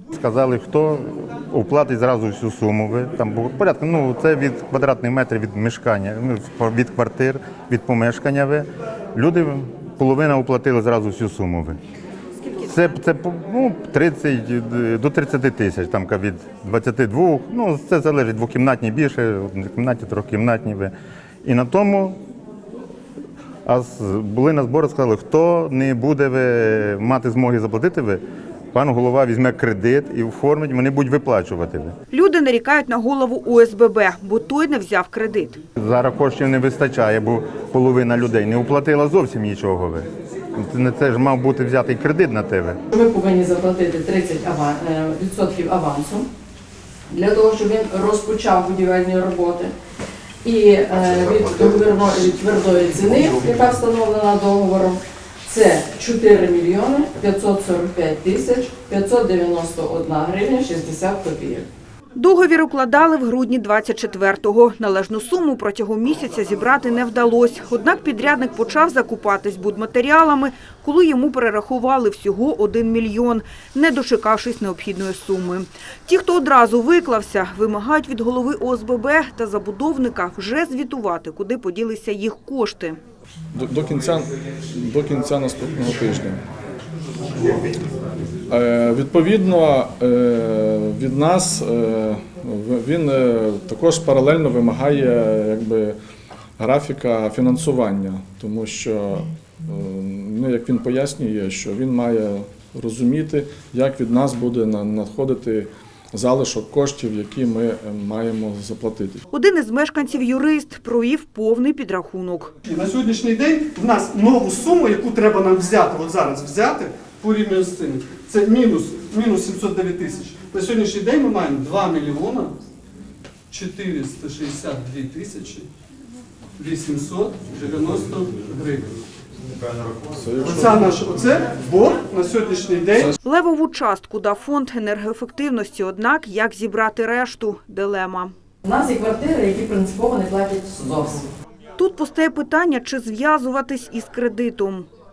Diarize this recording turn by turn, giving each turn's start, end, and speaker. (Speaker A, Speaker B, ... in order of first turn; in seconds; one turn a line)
Speaker A: 0.1-11.8
Speaker B: 12.4-13.0
Speaker A: 12.7-20.9
Speaker A: 21.4-22.2
Speaker A: 23.7-28.2
Speaker A: 28.7-31.9
Speaker B: 32.1-35.6
Speaker A: 35.8-42.8
Speaker C: 42.9-46.3
Speaker C: 47.1-49.7
Speaker C: 50.4-61.7
Speaker B: 62.2-83.0
Speaker D: 83.5-86.4
Speaker D: 88.5-96.0
Speaker D: 96.6-109.2
Speaker B: 109.3-112.5
Speaker E: 112.7-122.6
Speaker E: 123.5-125.7
Speaker E: 126.6-128.9
Speaker D: 130.1-130.9
Speaker E: 130.5-133.2
Speaker B: 133.2-138.3
Speaker C: 138.7-141.3
Speaker B: 141.8-144.9